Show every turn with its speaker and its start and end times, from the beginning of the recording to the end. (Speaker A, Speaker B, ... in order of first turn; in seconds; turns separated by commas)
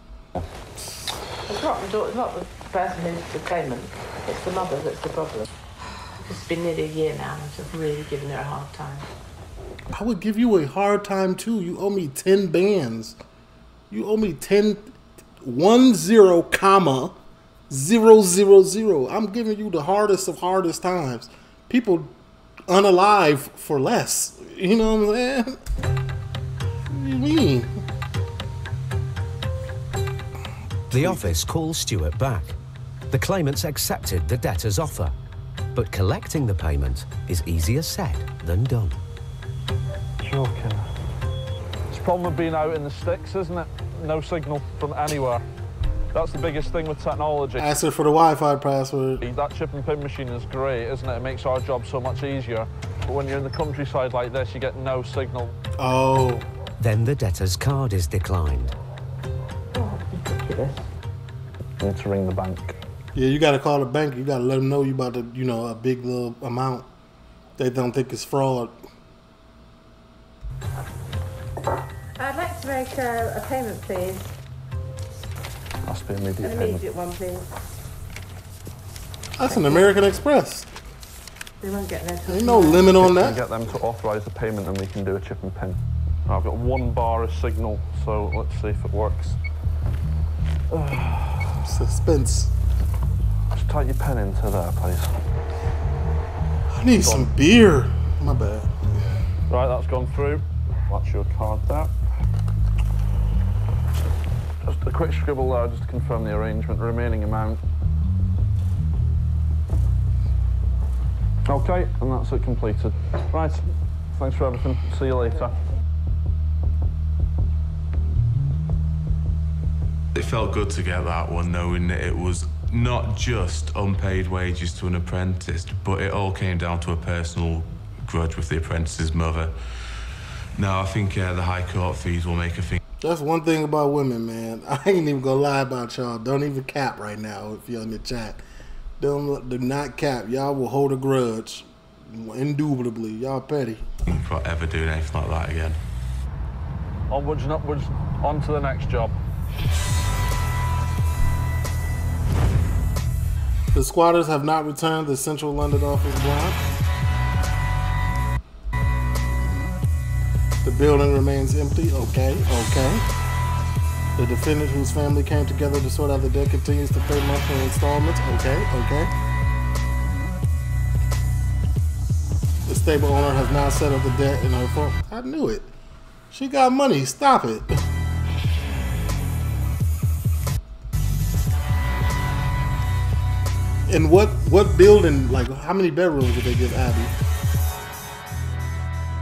Speaker A: 1.5-5.5, Speaker A: 6.2-9.1, Speaker B: 9.9-13.2, Speaker B: 13.9-17.2, Speaker B: 17.7-22.1, Speaker B: 22.7-25.6, Speaker B: 26.9-27.8, Speaker C: 30.9-32.6, Speaker B: 30.9-31.4, Speaker C: 33.1-35.2, Speaker C: 35.7-39.0, Speaker D: 40.2-40.9, Speaker D: 41.9-45.4, Speaker D: 46.1-47.8, Speaker B: 47.6-49.2, Speaker D: 49.2-55.5, Speaker B: 55.8-56.5, Speaker C: 56.8-58.7, Speaker A: 59.8-60.7, Speaker D: 61.8-62.8, Speaker B: 63.1-66.9, Speaker B: 67.6-68.8, Speaker A: 72.2-74.3, Speaker D: 75.8-76.8, Speaker A: 76.4-77.5, Speaker B: 79.4-80.7, Speaker A: 79.5-79.9, Speaker A: 81.6-82.9, Speaker B: 82.2-83.4, Speaker D: 82.9-89.4, Speaker D: 90.7-91.6, Speaker B: 91.6-92.5, Speaker D: 93.5-95.1, Speaker B: 96.7-98.7, Speaker D: 97.0-97.3, Speaker D: 99.5-101.9, Speaker D: 104.6-107.6, Speaker D: 111.5-115.6, Speaker E: 120.1-129.5, Speaker E: 130.6-132.8, Speaker B: 133.0-138.4, Speaker B: 139.0-143.8, Speaker E: 144.1-145.8, Speaker D: 147.1-149.2, Speaker B: 153.7-156.6, Speaker B: 160.6-163.0, Speaker B: 164.2-169.1, Speaker B: 172.7-175.7, Speaker B: 176.3-177.8, Speaker B: 183.9-187.1